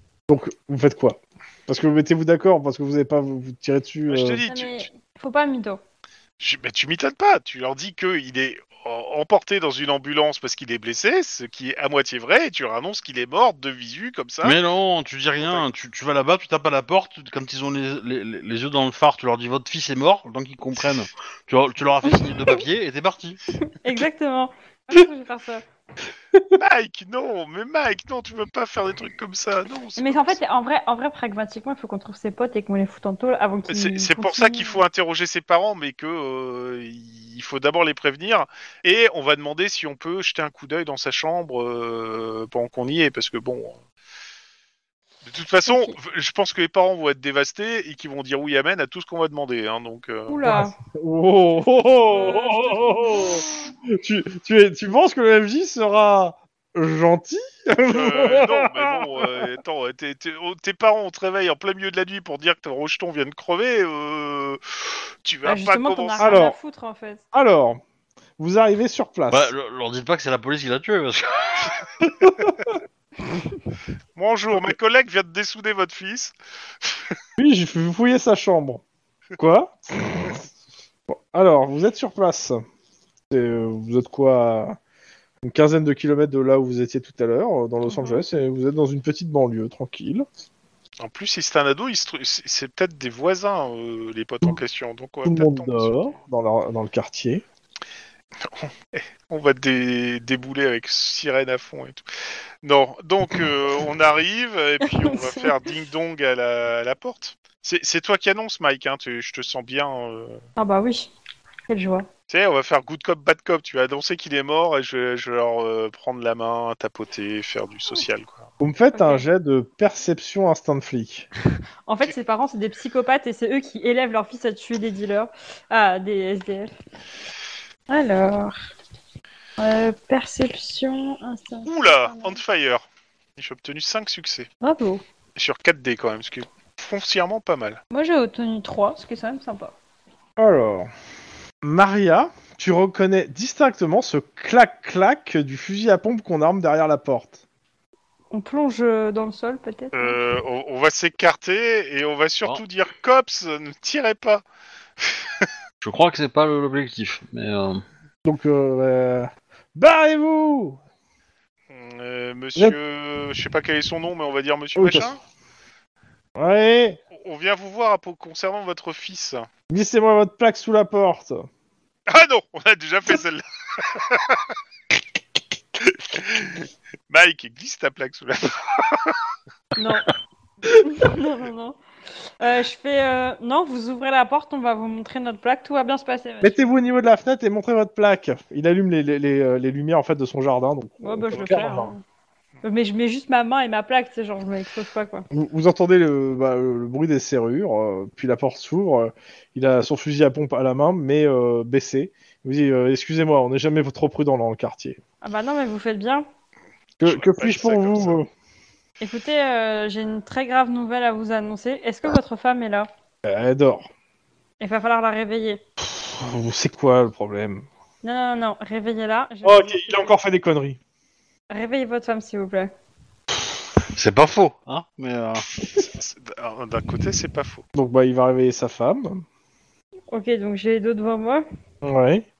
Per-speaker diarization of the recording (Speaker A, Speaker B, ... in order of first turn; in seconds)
Speaker A: 0.3-4.4, 50.5-59.5, 66.2-66.5, 67.3-67.8, 68.4-69.5, 72.0-72.7, 77.4-78.8, 79.4-80.4, 81.1-82.6, 83.3-84.8, 85.4-90.2, 95.2-97.4, 118.6-121.3, 140.4-140.9, 141.6-147.4, 158.2-160.8, 164.8-165.1, 166.3-167.0, 169.7-171.5, 186.4-191.9, 195.3-205.0, 207.0-208.3, 213.2-213.9, 215.8-217.7, 219.4-220.8, 227.7-229.2, 231.8-232.2
Speaker B: 4.1-4.8, 6.4-14.6, 15.4-15.7, 26.5-30.4, 33.7-43.8, 45.2-50.4, 57.9-66.4, 74.2-77.2, 91.0-96.2, 98.4-102.1, 102.6-110.4, 112.3-118.5, 131.7-132.8, 133.4-134.5, 135.3-137.8, 149.9-154.4, 155.0-155.5, 161.7-165.2, 167.1-169.5, 172.1-174.5, 175.8-179.2, 207.0-208.2, 225.8-227.6
Speaker C: 4.5-5.8, 22.1-22.6, 23.6-25.6, 30.0-34.8, 45.7-46.0, 50.3-50.7, 51.7-53.7, 65.4-67.2, 87.8-88.2, 104.8-105.5, 110.6-111.1, 111.7-112.0, 118.9-119.3, 121.9-126.7, 127.9-128.6, 129.6-132.4, 134.6-135.0, 137.9-139.7, 148.3-150.2, 179.8-180.1, 180.8-181.8, 182.3-186.6, 191.0-192.0, 192.6-195.3, 205.2-206.2, 209.0-212.9, 214.6-215.6, 218.0-220.1, 221.5-222.7, 230.1-231.4
Speaker D: 14.4-23.4, 69.3-71.7, 155.8-157.8, 223.9-225.5